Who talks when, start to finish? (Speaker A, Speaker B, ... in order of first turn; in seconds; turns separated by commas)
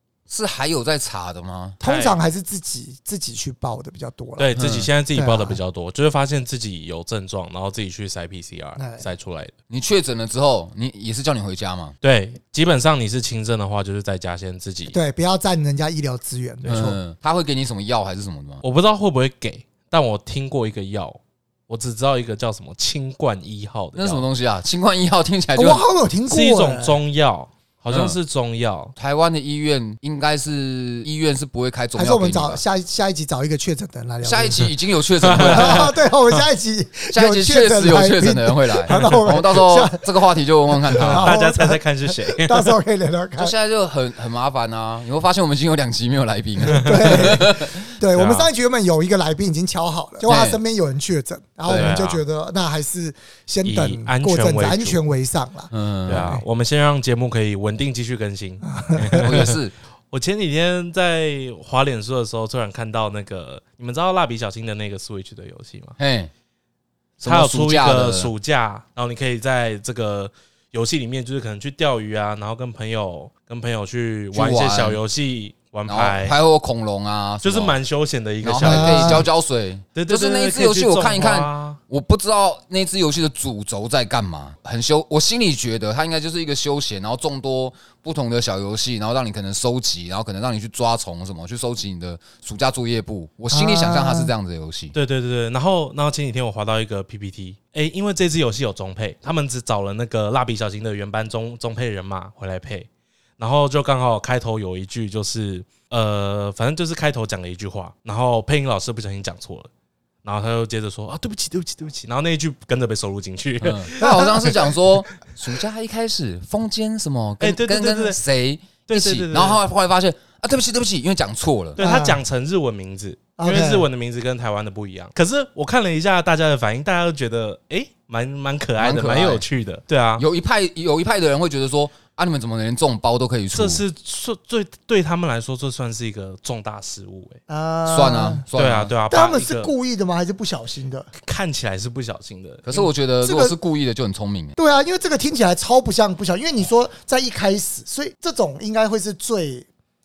Speaker A: 0.3-1.8, Speaker B: 1.8-4.5, Speaker C: 1.8-2.1, Speaker C: 4.4-9.5, Speaker A: 4.5-4.9, Speaker B: 5.1-5.6, Speaker B: 8.8-9.0, Speaker A: 9.7-11.9, Speaker C: 12.0-14.9, Speaker B: 14.9-17.0, Speaker A: 16.7-18.6, Speaker C: 18.6-24.2, Speaker A: 23.9-25.8, Speaker B: 25.6-27.0, Speaker C: 26.3-28.9, Speaker A: 27.9-28.2, Speaker A: 28.9-32.6, Speaker B: 31.9-34.7, Speaker A: 34.2-35.9, Speaker C: 35.2-35.9, Speaker B: 35.3-40.0, Speaker A: 37.1-41.3, Speaker B: 40.9-43.5, Speaker C: 41.0-42.7, Speaker A: 43.4-47.8, Speaker B: 46.7-56.4, Speaker C: 46.7-47.4, Speaker C: 48.1-48.5, Speaker A: 50.2-50.6, Speaker A: 51.7-52.0, Speaker C: 51.7-52.2, Speaker C: 53.6-55.0, Speaker A: 55.7-56.3, Speaker C: 56.1-59.6, Speaker B: 58.7-59.2, Speaker A: 59.2-59.7, Speaker C: 60.1-66.0, Speaker A: 66.0-66.3, Speaker A: 67.2-68.3, Speaker C: 67.2-76.3, Speaker A: 74.3-75.0, Speaker A: 75.9-77.8, Speaker C: 77.4-79.3, Speaker A: 78.4-94.9, Speaker B: 78.6-79.2, Speaker C: 79.9-81.8, Speaker B: 93.5-94.3, Speaker C: 94.9-102.9, Speaker C: 103.4-109.7, Speaker C: 110.2-114.6, Speaker A: 113.6-121.8, Speaker B: 114.0-114.3, Speaker C: 117.4-118.2, Speaker C: 118.9-119.6, Speaker C: 121.8-130.2, Speaker B: 121.8-122.2, Speaker B: 123.4-123.8, Speaker A: 128.8-129.4, Speaker A: 130.2-133.8, Speaker C: 133.5-137.4, Speaker B: 137.5-138.4, Speaker A: 137.9-138.9, Speaker C: 138.5-139.7, Speaker B: 139.1-141.1, Speaker C: 141.1-142.7, Speaker A: 142.7-144.5, Speaker B: 142.7-143.5, Speaker B: 144.6-149.7